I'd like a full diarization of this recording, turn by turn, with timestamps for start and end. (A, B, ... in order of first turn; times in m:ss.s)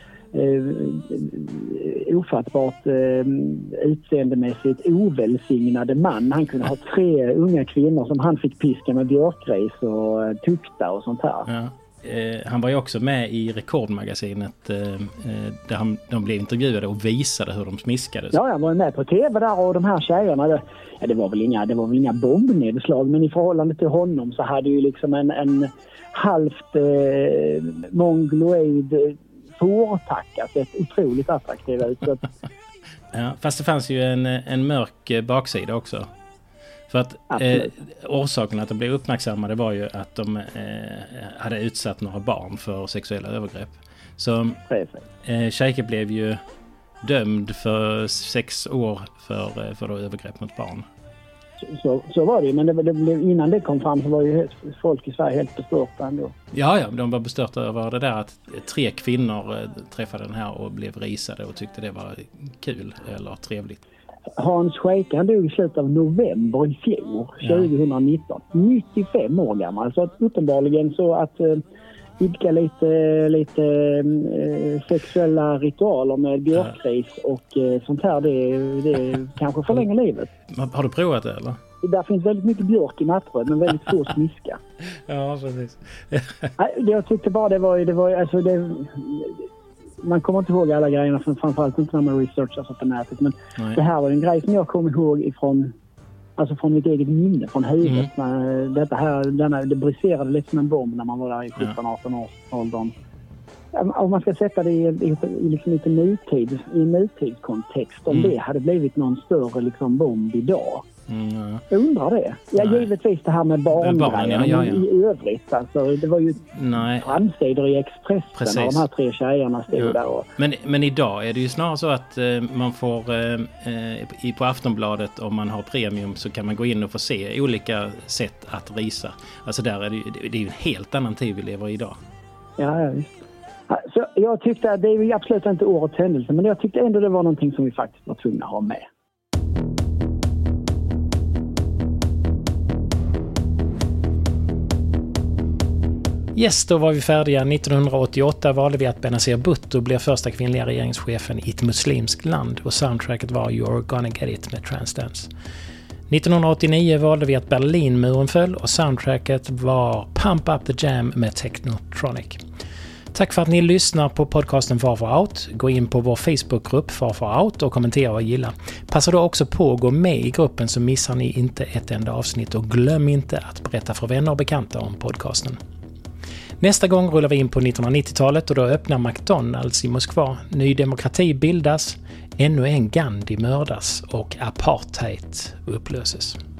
0:00.3-0:11.5 A
0:11.4-0:18.4 B
0:18.3-0:32.2 A
0:33.1-0:36.1 B
0:36.9-0:44.6 B
0:37.3-0:37.7 A
0:44.7-0:45.0 A
0:45.2-0:46.4 B
0:47.0-0:50.8 B
0:51.7-0:56.3 A
0:56.5-1:03.8 B
1:04.4-1:11.6 A
1:07.4-1:07.7 B
1:12.2-1:20.3 A
1:20.5-1:21.6 B
1:21.8-1:24.6 A
1:25.0-1:26.5 B
1:26.6-1:29.4 A
1:30.0-1:35.7 A
1:36.4-1:42.9 A
1:37.8-1:38.1 B
1:43.7-1:50.8 A
1:48.1-1:48.3 B
1:51.1-1:51.6 B
1:51.7-2:00.3 A
1:52.6-1:52.9 B
1:53.7-1:54.9 B
1:56.5-1:57.1 B
1:58.4-1:58.8 B
1:59.7-2:12.0 B
2:12.6-2:18.9 A
2:26.3-2:35.3 B
2:36.1-2:42.4 B
2:43.1-2:55.6 B
2:56.6-3:06.4 B